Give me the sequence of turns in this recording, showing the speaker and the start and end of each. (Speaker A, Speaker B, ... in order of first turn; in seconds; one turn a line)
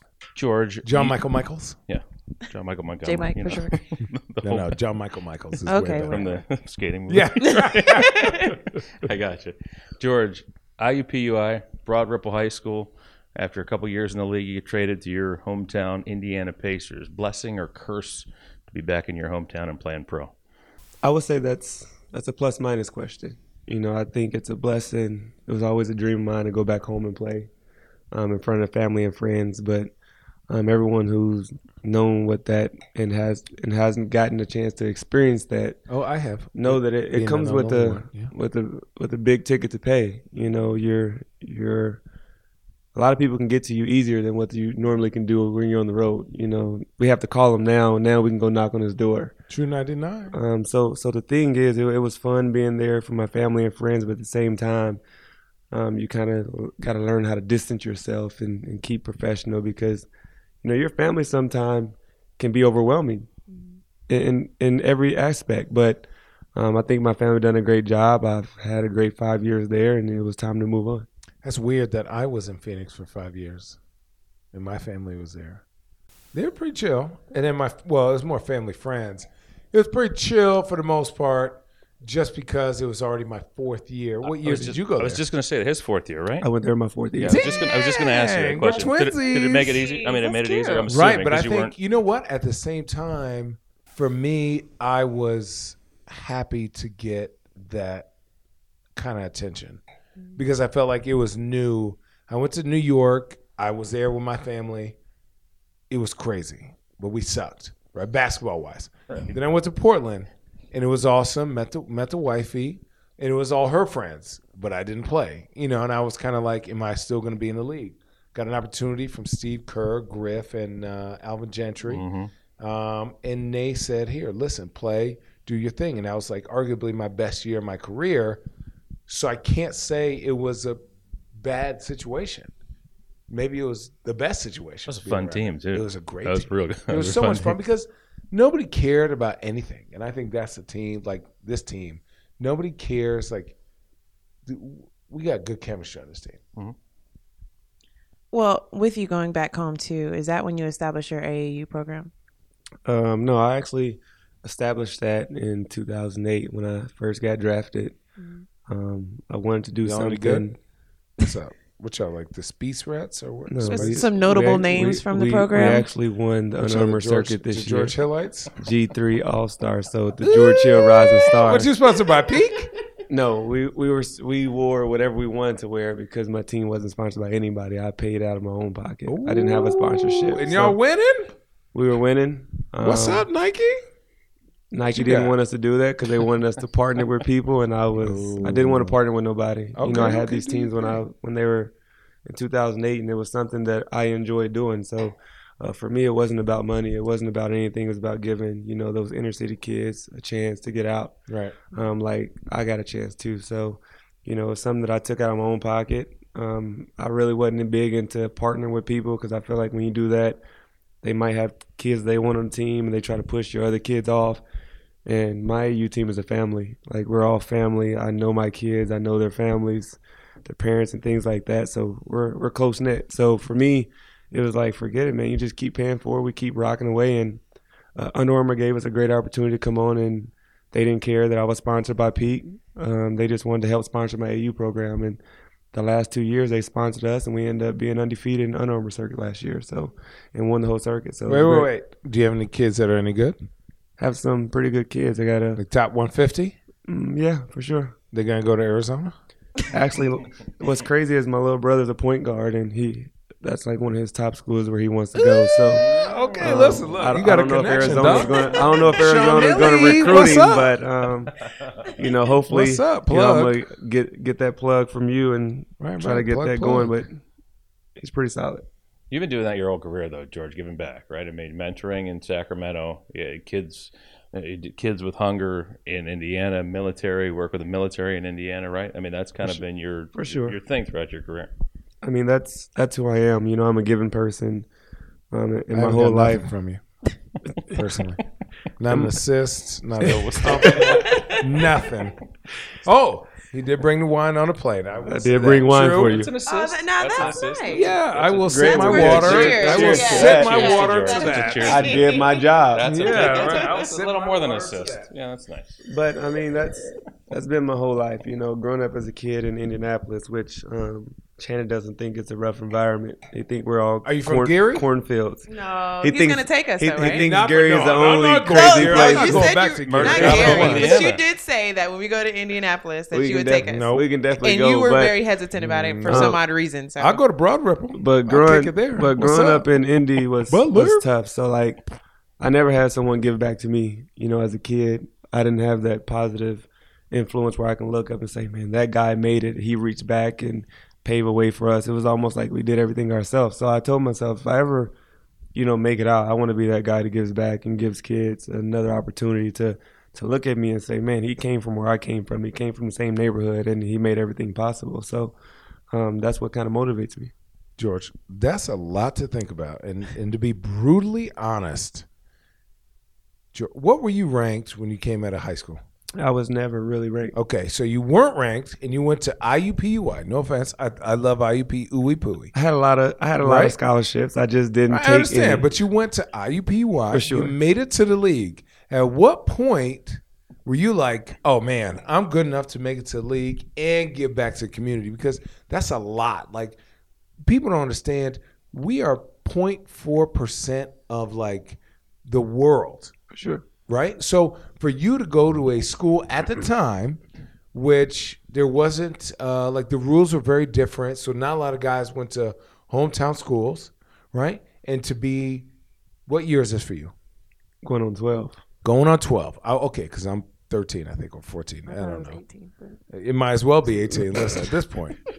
Speaker A: 0.3-1.3
Speaker B: 0.8-1.8
Speaker A: 1.9-4.8
Speaker C: 3.0-3.9
Speaker B: 4.4-6.4
Speaker C: 5.6-6.3
Speaker A: 6.1-20.3
Speaker B: 7.1-8.2
Speaker C: 7.4-8.5
Speaker D: 21.0-27.5
Speaker D: 28.1-29.9
Speaker D: 30.5-35.8
Speaker B: 35.9-38.3
Speaker D: 36.5-42.0
Speaker D: 42.9-49.3
Speaker B: 49.5-50.3
Speaker D: 50.3-55.0
Speaker D: 55.7-60.1
Speaker D: 60.6-63.3
Speaker D: 64.1-71.1
Speaker B: 71.4-73.8
Speaker B: 74.5-75.6
Speaker B: 76.3-85.2
Speaker A: 84.2-86.5
Speaker D: 86.4-87.5
Speaker A: 87.2-91.7
Speaker B: 87.2-89.8
Speaker C: 88.7-90.9
Speaker B: 90.9-98.1
Speaker B: 99.0-99.8
Speaker C: 100.2-100.5
Speaker B: 100.4-105.0
Speaker B: 105.9-122.0
Speaker A: 121.9-122.3
Speaker B: 122.6-128.4
Speaker B: 129.1-130.8
Speaker B: 131.4-132.5
Speaker B: 133.3-143.6
Speaker A: 134.9-137.6
Speaker B: 144.4-146.4
Speaker C: 148.3-152.1
Speaker D: 152.8-158.0
Speaker D: 158.7-160.6
Speaker B: 159.8-160.4
Speaker B: 161.2-164.1
Speaker D: 163.5-168.0
Speaker C: 163.6-165.9
Speaker B: 166.6-168.5
Speaker D: 168.6-171.7
Speaker B: 170.2-172.7
Speaker D: 173.1-180.8
Speaker B: 179.1-181.3
Speaker D: 181.7-183.3
Speaker B: 182.8-183.8
Speaker D: 184.7-191.7
Speaker B: 184.9-185.4
Speaker B: 188.0-188.9
Speaker B: 189.8-191.0
Speaker D: 192.2-201.2
Speaker B: 201.3-201.6
Speaker D: 201.7-210.4
Speaker D: 211.0-214.4
Speaker D: 215.0-227.4
Speaker D: 227.9-235.2
Speaker D: 235.7-241.7
Speaker B: 241.3-243.4
Speaker D: 244.0-245.6
Speaker B: 245.6-246.6
Speaker D: 246.8-247.9
Speaker B: 248.1-249.1
Speaker D: 249.7-255.8
Speaker B: 255.2-260.8
Speaker A: 255.7-256.2
Speaker C: 256.3-256.6
Speaker D: 256.4-261.3
Speaker C: 258.3-259.9
Speaker D: 261.9-267.2
Speaker B: 262.5-263.6
Speaker B: 265.8-267.0
Speaker D: 268.0-268.6
Speaker A: 269.1-281.5
Speaker D: 280.1-280.6
Speaker D: 282.0-284.7
Speaker D: 285.3-286.5
Speaker B: 285.7-286.8
Speaker B: 287.7-288.2
Speaker B: 288.8-292.1
Speaker A: 290.0-290.8
Speaker D: 290.0-290.8
Speaker C: 290.8-291.6
Speaker B: 292.8-296.2
Speaker D: 295.1-296.3
Speaker A: 295.6-305.7
Speaker C: 296.4-297.9
Speaker B: 297.7-302.0
Speaker D: 298.5-300.8
Speaker C: 298.5-302.4
Speaker D: 301.6-303.5
Speaker B: 302.8-305.1
Speaker C: 303.6-303.8
Speaker D: 305.9-315.5
Speaker B: 314.0-314.9
Speaker C: 315.5-317.3
Speaker D: 316.0-319.5
Speaker B: 317.0-321.1
Speaker C: 318.4-327.2
Speaker A: 319.8-321.2
Speaker D: 320.1-320.7
Speaker D: 323.1-325.1
Speaker B: 323.6-324.1
Speaker B: 325.6-326.4
Speaker D: 326.0-326.4
Speaker B: 327.0-329.7
Speaker D: 327.9-331.8
Speaker B: 330.5-331.1
Speaker D: 332.4-344.9
Speaker D: 345.5-355.3
Speaker D: 355.9-357.3
Speaker B: 357.8-362.0
Speaker B: 363.5-365.8
Speaker D: 366.2-367.3
Speaker B: 367.3-372.5
Speaker D: 372.5-375.7
Speaker B: 373.4-373.8
Speaker B: 374.9-386.8
Speaker D: 377.1-377.5
Speaker B: 387.4-393.1
Speaker D: 393.3-393.6
Speaker B: 393.9-397.2
Speaker B: 397.7-405.7
Speaker B: 406.3-407.1
Speaker D: 407.8-408.6
Speaker B: 408.8-412.4
Speaker C: 411.9-413.0
Speaker B: 413.1-415.2